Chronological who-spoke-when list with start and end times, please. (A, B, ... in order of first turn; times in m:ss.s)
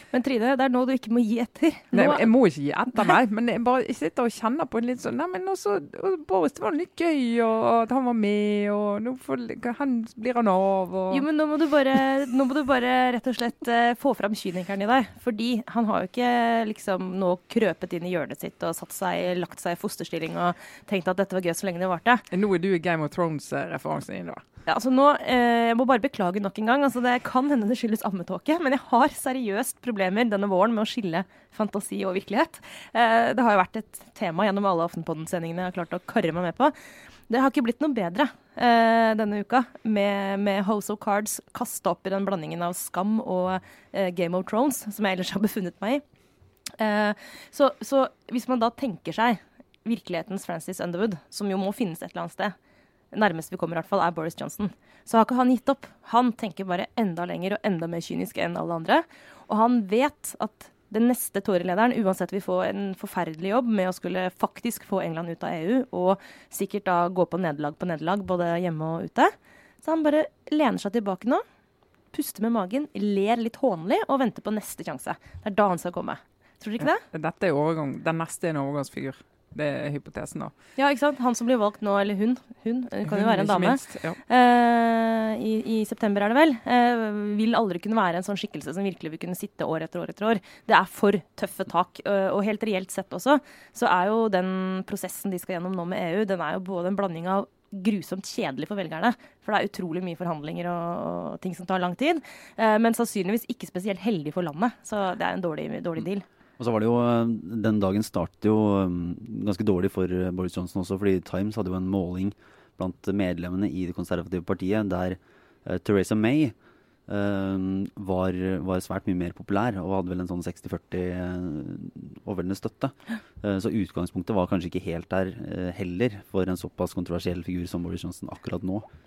0:00.1-0:02.3 A
0:01.9-0:11.2 B
0:11.1-0:22.2 A
0:22.3-0:24.4 B
0:24.7-0:36.7 A
0:37.3-0:46.0 A
0:46.8-0:52.5 A
0:53.1-1:11.4 A
1:12.1-1:17.0 A
1:17.0-1:20.5 B
1:20.8-1:46.2 A
1:23.0-1:24.2 B
1:46.6-1:56.5 C
1:57.1-2:08.8 C